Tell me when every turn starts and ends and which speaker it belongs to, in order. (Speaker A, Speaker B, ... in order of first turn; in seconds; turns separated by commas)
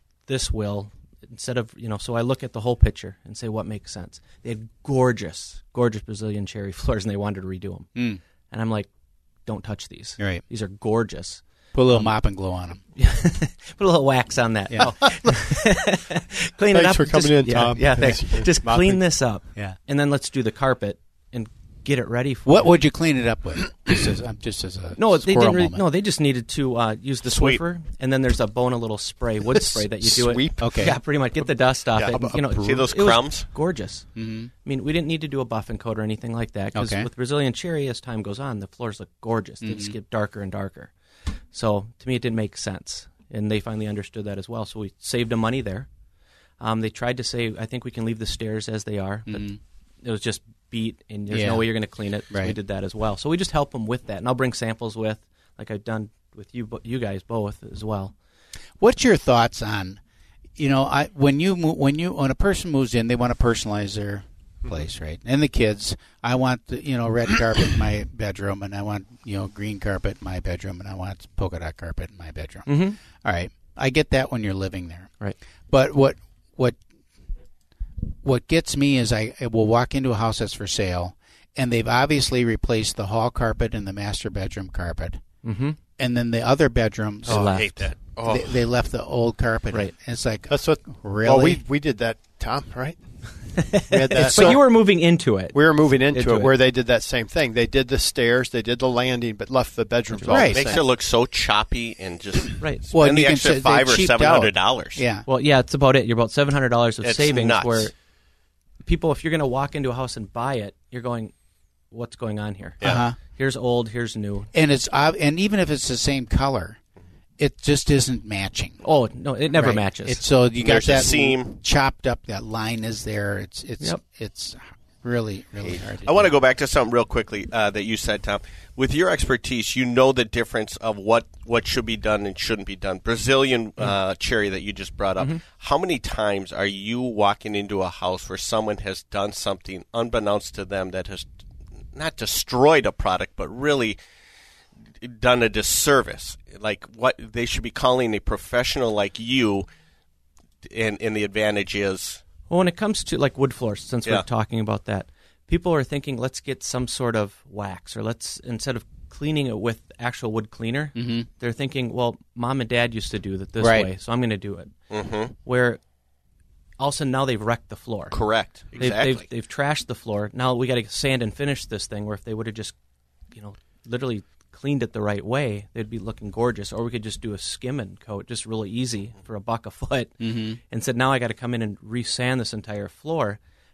Speaker A: 0.3-7.9, Speaker B: 8.0-8.2, Speaker A: 8.5-8.9, Speaker A: 9.5-12.2, Speaker B: 11.7-12.8, Speaker A: 13.0-22.7, Speaker C: 16.7-19.0, Speaker B: 22.5-25.8, Speaker A: 25.0-34.1, Speaker D: 27.2-27.6, Speaker C: 29.5-30.9, Speaker B: 30.6-31.0, Speaker D: 32.0-33.5, Speaker C: 32.0-32.8, Speaker B: 34.2-34.5, Speaker A: 34.6-40.9, Speaker B: 36.7-37.1, Speaker B: 39.6-40.0, Speaker A: 41.5-45.9, Speaker A: 46.6-58.1, Speaker B: 49.3-49.6, Speaker B: 51.3-52.6, Speaker B: 58.8-60.0, Speaker B: 60.6-75.1, Speaker A: 72.7-73.0, Speaker B: 75.7-76.8, Speaker B: 78.2-85.2, Speaker A: 85.4-85.8, Speaker B: 86.0-91.6, Speaker A: 87.3-87.7, Speaker D: 87.3-88.4, Speaker C: 88.2-88.5, Speaker C: 90.5-93.0, Speaker A: 93.6-96.5, Speaker C: 93.7-95.0, Speaker B: 94.2-94.6, Speaker C: 95.5-100.8, Speaker A: 100.1-100.4, Speaker B: 100.3-100.7, Speaker D: 100.5-105.0, Speaker A: 102.6-102.8, Speaker B: 102.9-105.3, Speaker A: 105.3-107.9, Speaker D: 107.0-107.9, Speaker A: 108.8-111.3, Speaker A: 111.9-114.5, Speaker B: 112.8-113.2, Speaker B: 114.5-116.8, Speaker B: 117.4-118.8, Speaker A: 118.8-120.2, Speaker B: 119.5-126.3, Speaker D: 120.6-121.6, Speaker D: 125.7-141.3, Speaker D: 141.9-144.0, Speaker D: 145.0-149.7, Speaker D: 150.7-152.2, Speaker A: 152.5-164.7, Speaker B: 161.0-161.3, Speaker B: 163.6-163.9, Speaker D: 164.9-165.3, Speaker A: 165.3-165.8, Speaker A: 166.8-172.8, Speaker D: 168.1-169.2, Speaker A: 173.3-183.4, Speaker B: 180.2-180.6